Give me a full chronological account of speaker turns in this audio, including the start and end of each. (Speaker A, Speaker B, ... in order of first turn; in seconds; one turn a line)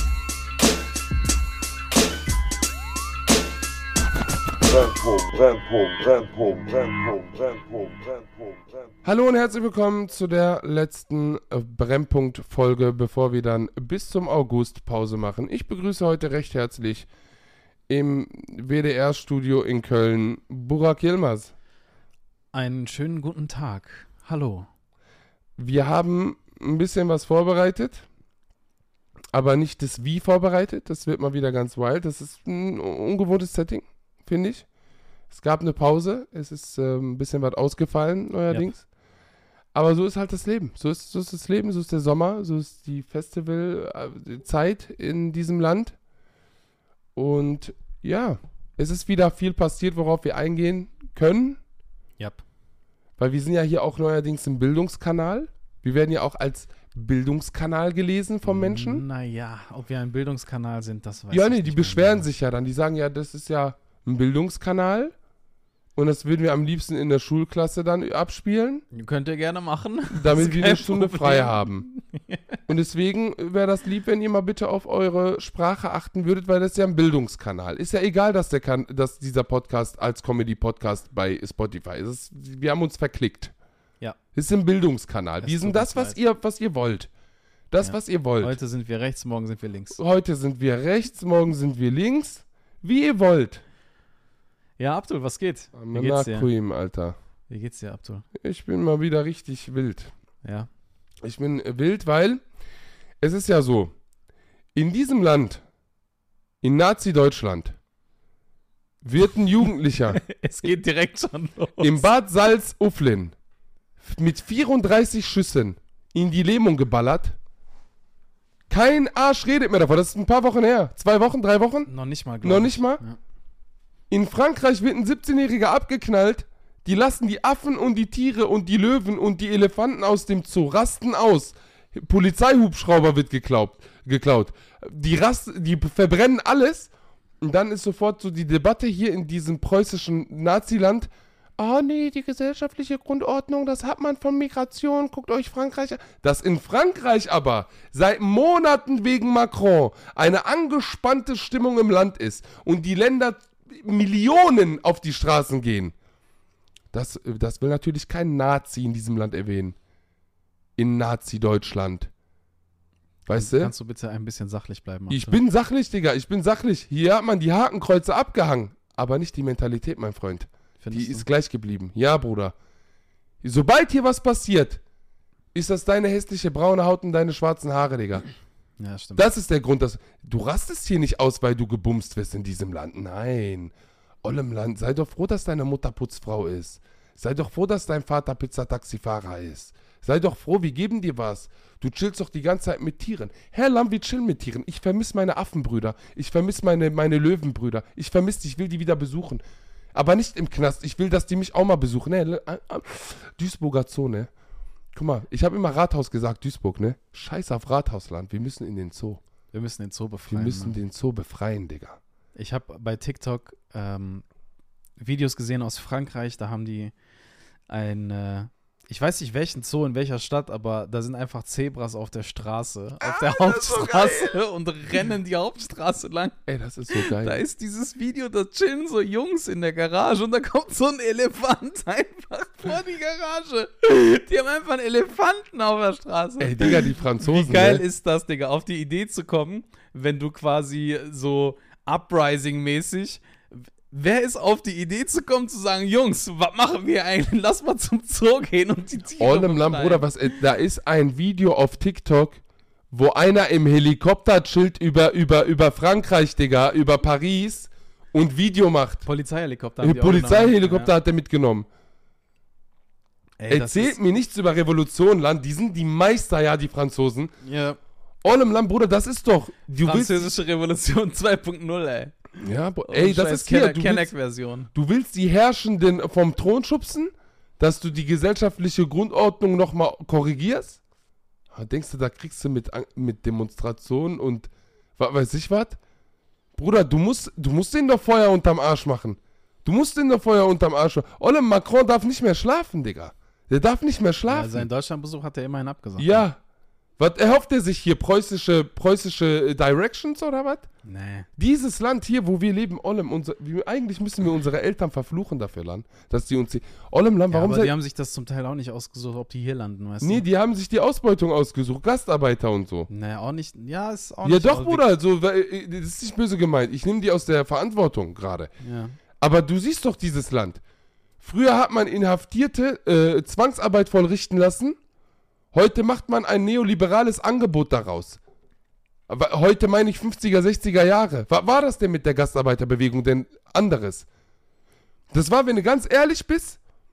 Speaker A: 4.7-8.9
Speaker B: 9.1-17.1
Speaker B: 17.9-21.5
Speaker C: 22.5-24.7
Speaker B: 25.6-28.1
Speaker B: 29.3-34.7
Speaker B: 35.3-38.9
Speaker B: 39.7-46.0
Speaker B: 47.2-51.6
Speaker B: 53.2-59.0
Speaker C: 58.5-62.3
Speaker B: 61.3-65.1
Speaker B: 66.0-68.8
Speaker C: 68.9-72.4
Speaker B: 70.2-71.9
Speaker B: 72.7-83.5
Speaker B: 84.3-87.1
Speaker C: 85.4-86.2
Speaker B: 87.7-88.6
Speaker C: 87.8-90.0
Speaker B: 90.0-93.6
Speaker C: 94.8-96.5
Speaker B: 95.7-97.2
Speaker C: 97.5-98.2
Speaker B: 98.3-100.1
Speaker C: 100.4-100.7
Speaker B: 101.2-102.4
Speaker B: 103.2-103.9
Speaker B: 104.8-105.6
Speaker B: 106.6-107.8
Speaker B: 109.0-110.2
Speaker C: 110.1-112.1
Speaker B: 111.8-113.3
Speaker B: 114.0-117.4
Speaker B: 118.7-121.9
Speaker C: 121.9-123.2
Speaker B: 122.4-123.0
Speaker B: 124.1-136.9
Speaker B: 137.4-155.9
Speaker B: 156.9-159.8
Speaker B: 160.8-162.1
Speaker B: 163.3-163.7
Speaker C: 163.3-165.4
Speaker B: 165.1-172.5
Speaker C: 170.8-171.2
Speaker B: 173.4-174.8
Speaker B: 175.5-178.2
Speaker C: 178.8-179.3
Speaker B: 179.2-183.7
Speaker B: 184.2-199.4
Speaker B: 199.9-204.3
Speaker B: 204.9-209.2
Speaker C: 209.5-210.8
Speaker B: 210.3-212.0
Speaker C: 212.4-214.2
Speaker C: 215.0-216.9
Speaker C: 217.7-226.4
Speaker B: 223.0-224.3
Speaker B: 226.5-227.4
Speaker C: 226.9-250.2
Speaker B: 236.4-237.8
Speaker B: 249.2-259.1
Speaker C: 259.1-260.9
Speaker B: 259.8-261.7
Speaker C: 263.4-264.0
Speaker B: 263.5-267.3
Speaker C: 267.4-267.8
Speaker B: 268.2-270.3
Speaker C: 269.8-272.3
Speaker B: 272.4-274.1
Speaker C: 272.9-274.7
Speaker B: 274.7-280.8
Speaker B: 281.5-285.8
Speaker B: 286.6-294.7
Speaker C: 294.3-296.3
Speaker B: 296.0-296.4
Speaker B: 297.0-300.7
Speaker C: 300.9-301.3
Speaker B: 301.4-307.7
Speaker C: 307.3-310.2
Speaker B: 310.0-312.9
Speaker C: 312.9-314.8
Speaker B: 314.2-318.5
Speaker C: 318.6-319.0
Speaker B: 319.2-320.6
Speaker B: 321.2-324.8
Speaker B: 325.5-328.2
Speaker B: 329.1-334.1
Speaker B: 335.1-336.6